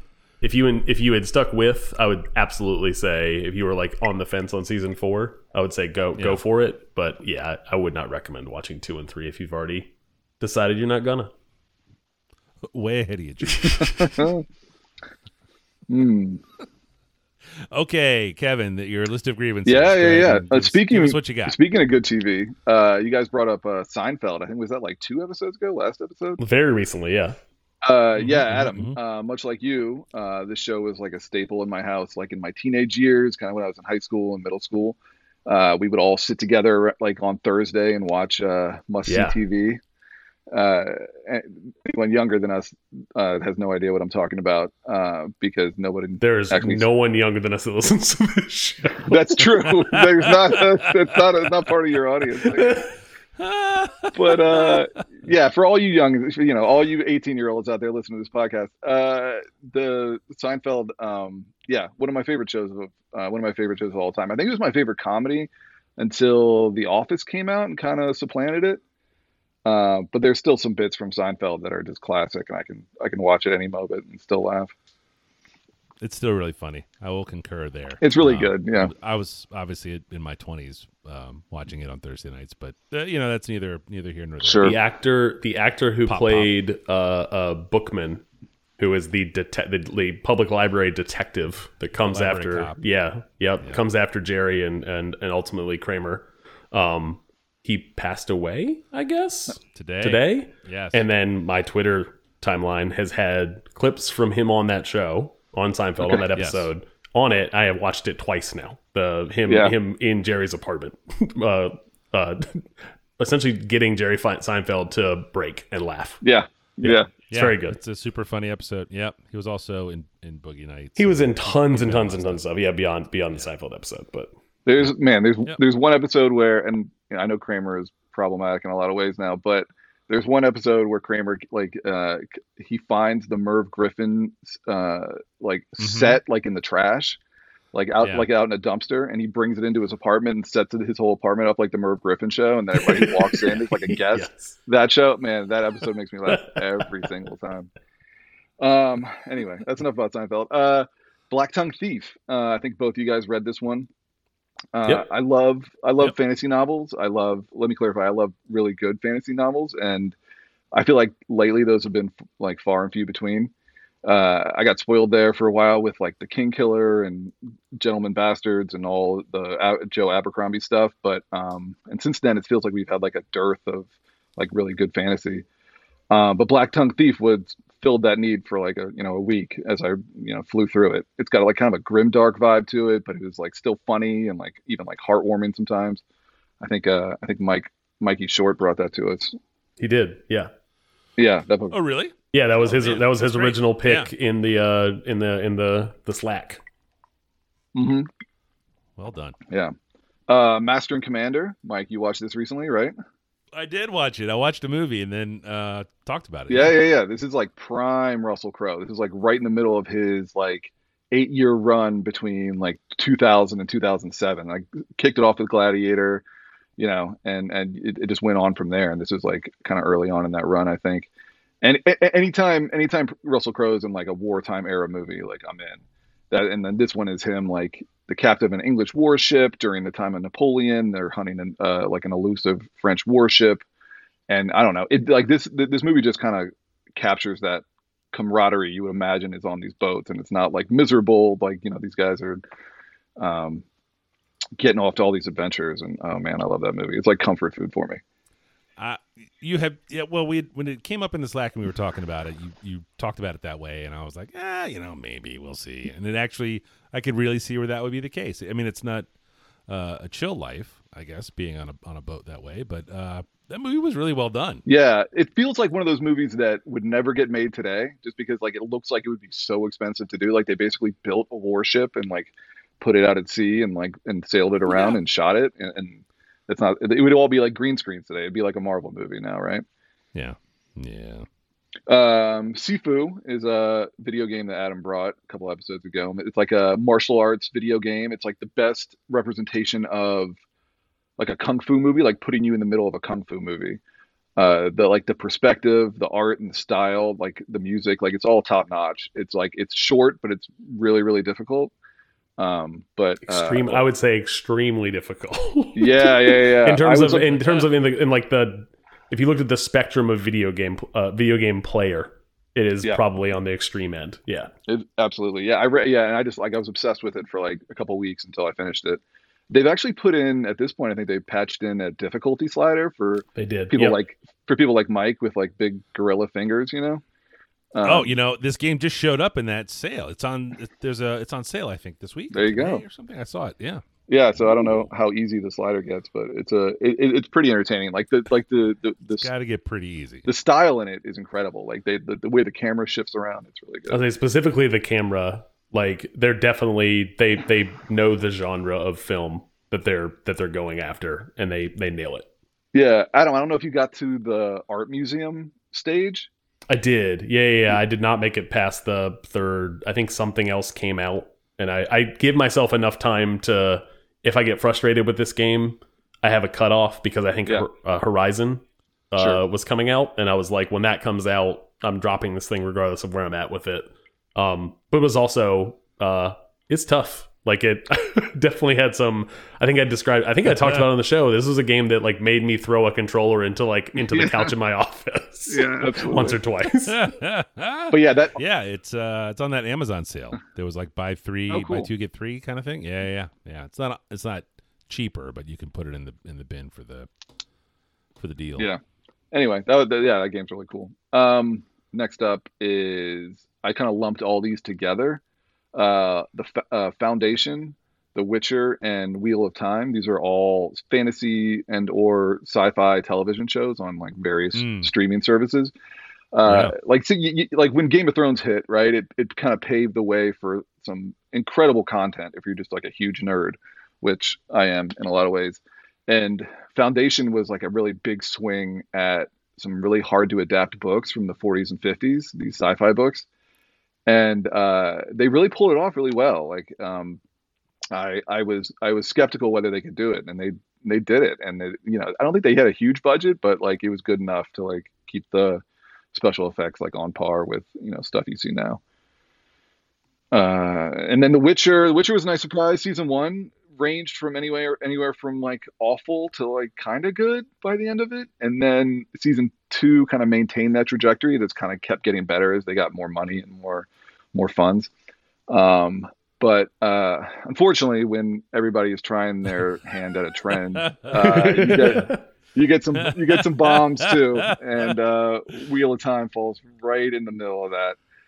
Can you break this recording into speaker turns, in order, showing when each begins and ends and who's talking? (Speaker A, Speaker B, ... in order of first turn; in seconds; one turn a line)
Speaker A: 0.4-11.3
Speaker B: 6.2-6.4
Speaker B: 12.7-14.3
Speaker C: 13.9-14.4
Speaker C: 15.9-16.4
Speaker B: 17.7-21.6
Speaker C: 19.6-26.4
Speaker A: 26.4-27.4
Speaker C: 27.8-39.8
Speaker B: 28.1-29.0
Speaker A: 39.0-39.4
Speaker C: 40.5-46.8
Speaker A: 46.2-49.1
Speaker C: 49.0-52.8
Speaker B: 49.7-50.6
Speaker A: 52.4-52.9
Speaker B: 53.4-54.8
Speaker C: 54.1-68.8
Speaker C: 69.6-74.7
Speaker B: 76.0-84.8
Speaker C: 78.0-78.9
Speaker C: 84.4-84.7
Speaker A: 84.6-88.2
Speaker B: 86.0-86.5
Speaker A: 88.8-112.6
Speaker B: 92.0-92.8
Speaker B: 99.7-101.0
Speaker C: 106.0-106.3
Speaker B: 106.3-106.7
Speaker C: 109.5-109.7
Speaker A: 113.2-116.2
Speaker C: 116.2-117.1
Speaker A: 116.8-117.8
Speaker B: 117.3-122.4
Speaker A: 121.0-124.3
Speaker C: 124.7-137.2
Speaker B: 135.8-136.2
Speaker C: 137.7-147.7
Speaker B: 138.0-138.3
Speaker A: 142.8-144.6
Speaker A: 146.3-146.6
Speaker C: 148.6-153.9
Speaker C: 154.7-160.2
Speaker C: 160.7-163.5
Speaker C: 164.0-175.4
Speaker C: 176.1-186.0
Speaker C: 186.6-189.3
Speaker A: 189.8-190.5
Speaker C: 191.2-191.8
Speaker B: 191.7-194.1
Speaker A: 192.3-196.6
Speaker C: 197.7-198.1
Speaker B: 199.0-199.3
Speaker C: 199.5-199.7
Speaker C: 200.3-202.9
Speaker B: 203.5-206.8
Speaker C: 206.5-216.2
Speaker C: 216.8-221.1
Speaker C: 221.6-233.6
Speaker C: 234.3-242.4
Speaker C: 243.2-243.6
Speaker C: 244.6-248.0
Speaker B: 248.8-259.1
Speaker B: 259.7-264.6
Speaker C: 264.6-279.6
Speaker B: 280.1-281.2
Speaker C: 281.9-290.4
Speaker C: 291.2-293.8
Speaker C: 294.4-301.7
Speaker C: 302.4-303.8
Speaker A: 303.3-314.5
Speaker C: 305.8-307.5
Speaker C: 314.7-327.0
Speaker A: 323.4-324.0
Speaker C: 327.7-328.1
Speaker B: 327.8-333.8
Speaker C: 332.3-332.8
Speaker C: 334.1-339.3
Speaker B: 334.4-334.8
Speaker B: 339.1-340.3
Speaker C: 340.2-344.0
Speaker A: 343.9-352.2
Speaker C: 352.7-356.3
Speaker A: 356.7-387.1
Speaker B: 380.4-380.8
Speaker C: 384.0-384.5
Speaker C: 385.5-386.4
Speaker B: 386.9-397.1
Speaker C: 387.9-388.4
Speaker C: 391.5-391.9
Speaker B: 398.2-398.7
Speaker C: 399.3-405.2
Speaker C: 405.7-415.7
Speaker B: 414.5-414.9
Speaker C: 416.3-433.2
Speaker B: 416.4-416.7
Speaker C: 434.1-437.2
Speaker C: 437.9-448.8
Speaker C: 450.3-464.9
Speaker C: 465.5-478.0
Speaker B: 470.7-471.1
Speaker A: 471.1-472.2
Speaker B: 472.9-474.9